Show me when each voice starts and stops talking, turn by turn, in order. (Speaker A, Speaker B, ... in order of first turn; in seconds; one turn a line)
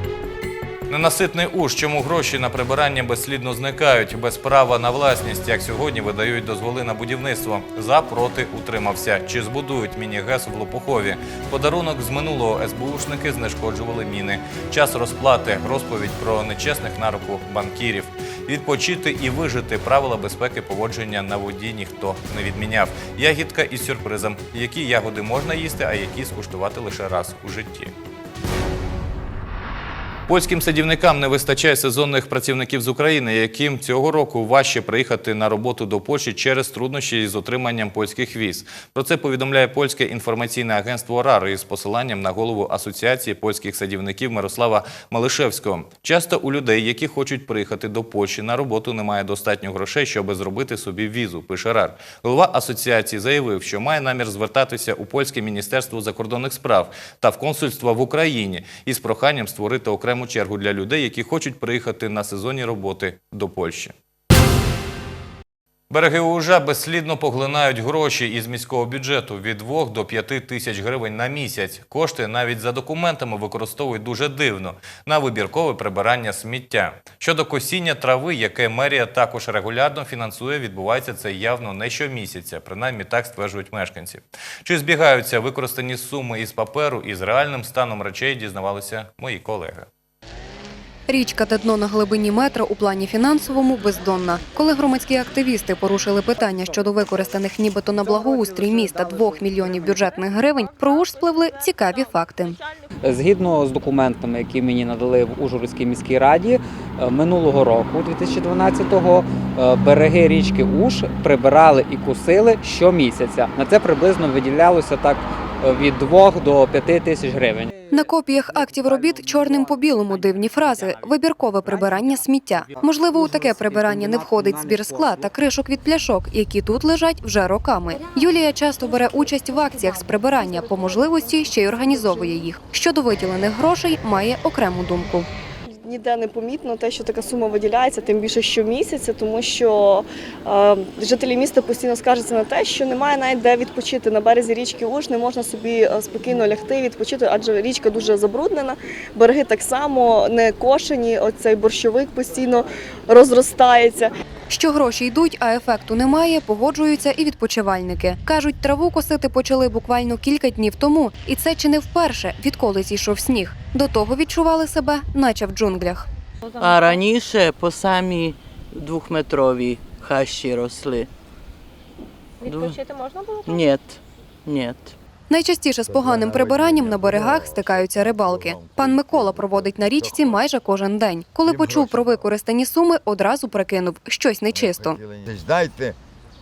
Speaker A: 0.9-27.9
Speaker A: 30.3-63.9
Speaker A: 65.9-89.9
Speaker B: 91.1-102.6
Speaker C: 103.0-117.7
Speaker B: 117.9-135.3
Speaker D: 135.7-154.1
Speaker B: 154.5-166.1
Speaker E: 166.6-171.1
Speaker E: 172.4-172.8
Speaker E: 173.4-174.9
Speaker B: 175.3-185.0
Speaker F: 175.9-180.4
Speaker F: 181.4-182.3
Speaker F: 184.5-186.0